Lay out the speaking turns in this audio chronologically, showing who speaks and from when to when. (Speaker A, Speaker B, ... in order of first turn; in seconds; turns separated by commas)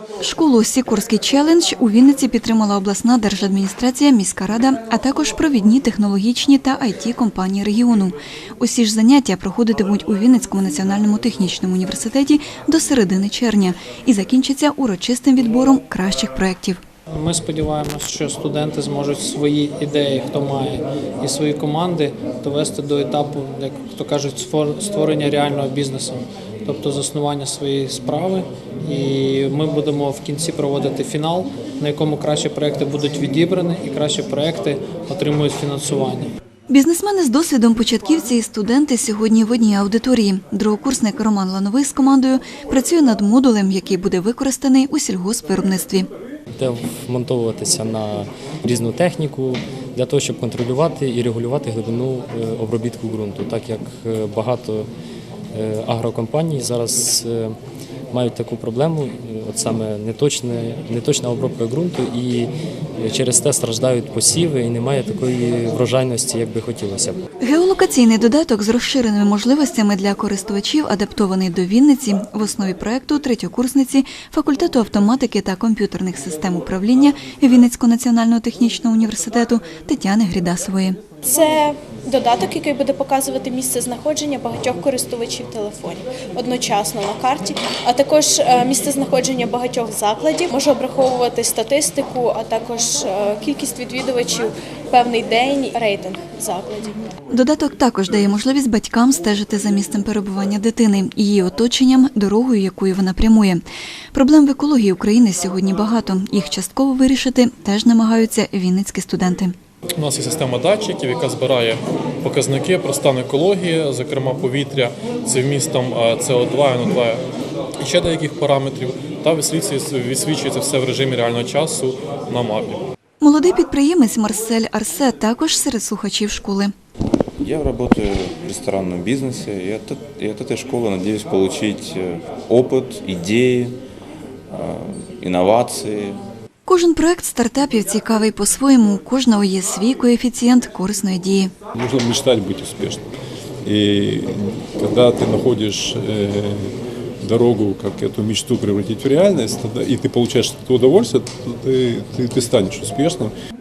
Speaker A: 0.2-16.8, Speaker B: 17.1-36.3, Speaker A: 36.7-46.1, Speaker C: 46.5-54.9, Speaker C: 55.5-57.6, Speaker C: 58.1-67.2, Speaker A: 67.4-81.0, Speaker D: 81.2-97.0, Speaker A: 97.3-109.5, Speaker E: 110.0-117.2, Speaker E: 117.9-122.8, Speaker A: 123.2-126.7, Speaker F: 127.4-133.8, Speaker F: 134.5-136.2, Speaker A: 136.7-141.5, Speaker G: 141.7-143.1, Speaker G: 143.6-153.3